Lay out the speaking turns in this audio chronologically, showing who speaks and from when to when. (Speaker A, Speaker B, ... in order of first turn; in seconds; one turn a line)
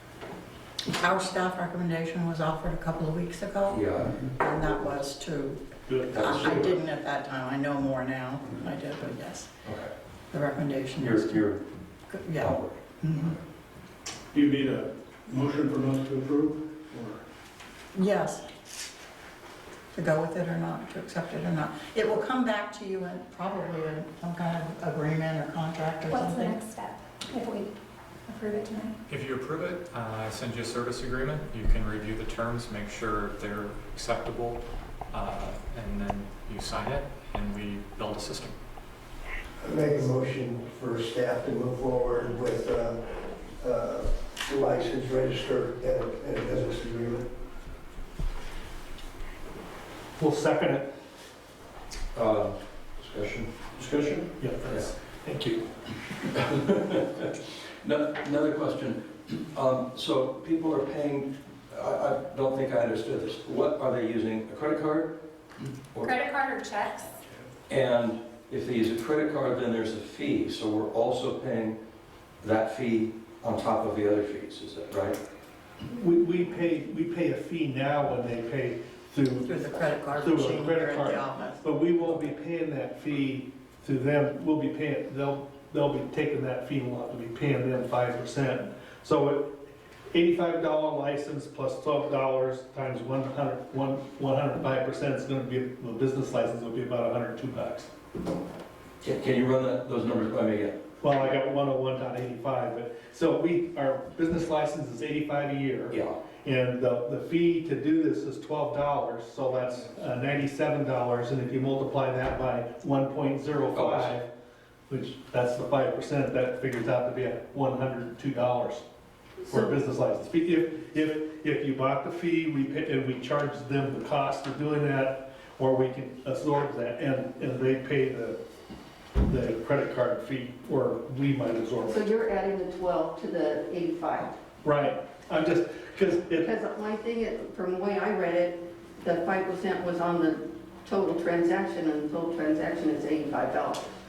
Speaker A: 0.8-9.5
Speaker B: 3.7-4.1
Speaker B: 6.1-6.8
Speaker B: 9.6-9.9
Speaker A: 10.3-11.4
Speaker B: 11.0-11.6
Speaker A: 12.1-12.5
Speaker B: 12.3-13.4
Speaker A: 13.0-13.3
Speaker C: 14.3-17.2
Speaker A: 17.9-18.5
Speaker A: 19.9-26.6
Speaker D: 26.1-27.7
Speaker D: 28.3-28.9
Speaker E: 29.1-38.6
Speaker F: 39.6-47.3
Speaker G: 50.2-50.9
Speaker B: 52.1-54.9
Speaker G: 54.4-55.7
Speaker B: 56.2-65.1
Speaker D: 66.0-67.1
Speaker B: 67.7-71.8
Speaker B: 72.4-75.2
Speaker G: 75.9-89.5
Speaker A: 79.4-82.2
Speaker G: 90.1-97.9
Speaker B: 99.0-100.8
Speaker G: 101.0-114.3
Speaker B: 105.9-106.2
Speaker B: 113.7-114.2
Speaker G: 114.9-118.9
Speaker G: 119.4-128.4
Speaker G: 129.2-132.0
Speaker H: 131.9-134.3
Speaker G: 134.6-136.5
Speaker H: 136.4-143.9